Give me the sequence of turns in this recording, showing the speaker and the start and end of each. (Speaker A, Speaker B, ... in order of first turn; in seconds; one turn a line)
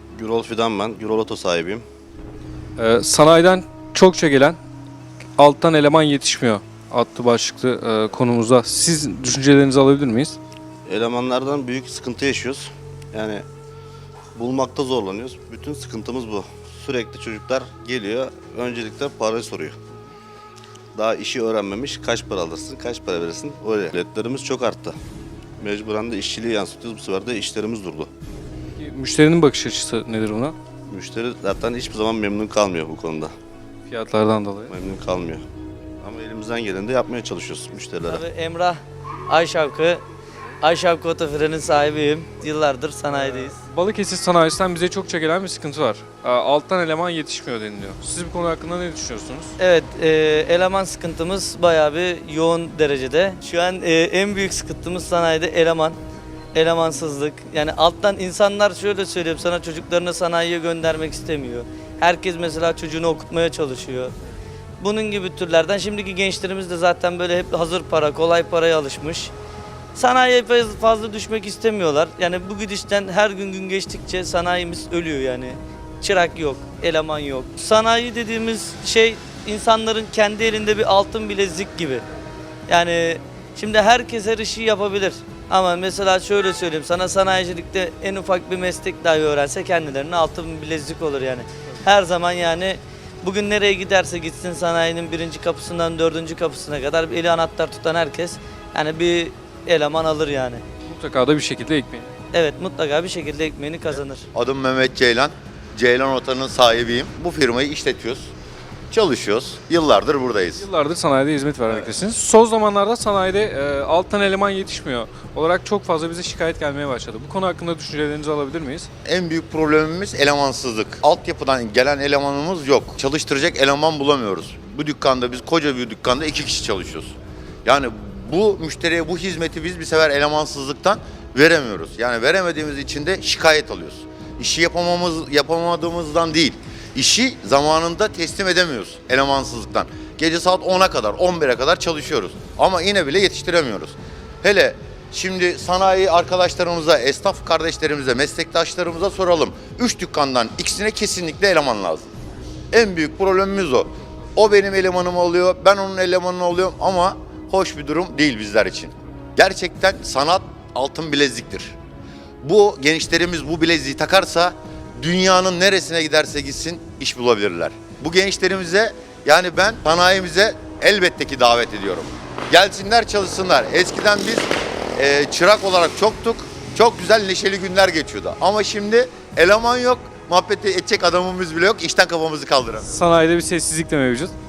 Speaker A: 0.1-1.9
Speaker B: 2.8-4.6
Speaker B: 5.4-10.4
Speaker A: 10.9-13.4
Speaker A: 14.3-19.8
Speaker A: 20.9-25.0
Speaker A: 25.6-28.1
Speaker B: 28.8-30.6
Speaker A: 30.9-33.3
Speaker B: 33.9-34.8
Speaker A: 34.7-35.5
Speaker A: 36.0-38.2
Speaker C: 38.0-40.0
Speaker C: 40.6-43.6
Speaker B: 43.1-49.5
Speaker C: 49.6-56.0
Speaker C: 56.5-64.1
Speaker C: 64.8-69.3
Speaker C: 70.0-82.0
Speaker C: 82.7-100.6
Speaker B: 100.8-102.1
Speaker C: 102.3-104.3
Speaker D: 104.3-108.3
Speaker D: 108.9-110.7
Speaker B: 110.6-118.9
Speaker D: 119.0-152.1
Speaker D: 152.7-161.8
Speaker D: 162.4-183.0
Speaker B: 182.8-184.3